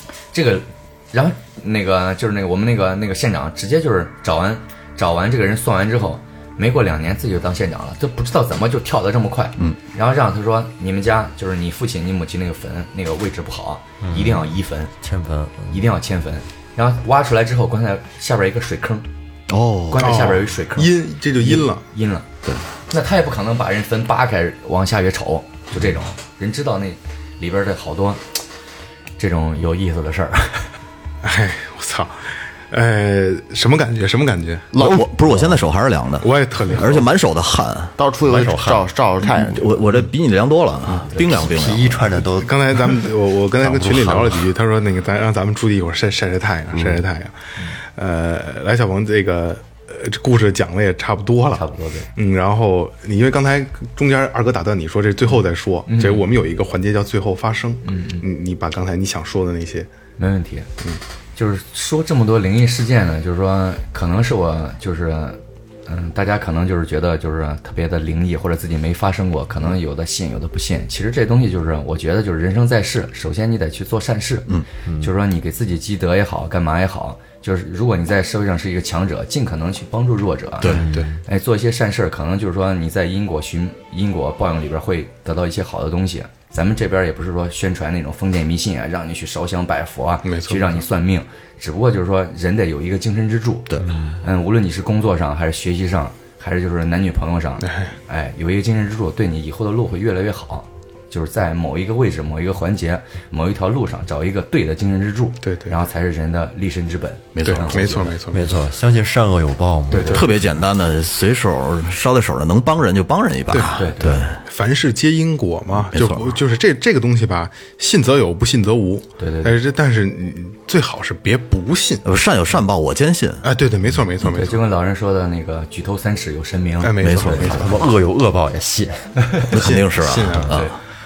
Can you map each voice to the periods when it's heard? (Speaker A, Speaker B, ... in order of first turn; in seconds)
Speaker A: 0.3-14.9, 15.7-19.1, 19.9-22.3, 22.9-28.2, 29.2-30.7, 41.1-41.4, 51.5-52.1, 55.3-56.3, 57.8-58.2, 60.2-60.7, 61.4-108.2, 109.9-110.3, 113.7-114.3, 119.2-119.5, 124.2-127.7
Speaker B: 14.0-15.8, 38.3-38.8, 41.4-43.0, 43.6-44.5, 80.7-81.2, 108.3-110.4, 127.2-129.2
Speaker C: 19.5-20.3, 34.7-38.0, 39.4-41.9, 80.6-80.9, 107.3-107.8, 110.1-114.4, 115.7-116.4, 122.0-123.4, 127.0-127.7, 129.5-130.8
Speaker D: 19.9-21.8, 31.2-34.7, 36.2-37.1, 42.3-51.6, 52.1-59.9, 90.2-90.8, 97.6-98.0, 105.4-105.8, 107.4-108.5, 113.5-113.8, 114.4-122.0, 123.4-124.7, 126.8-127.8, 129.6-130.7
Speaker E: 34.8-35.0, 38.0-39.7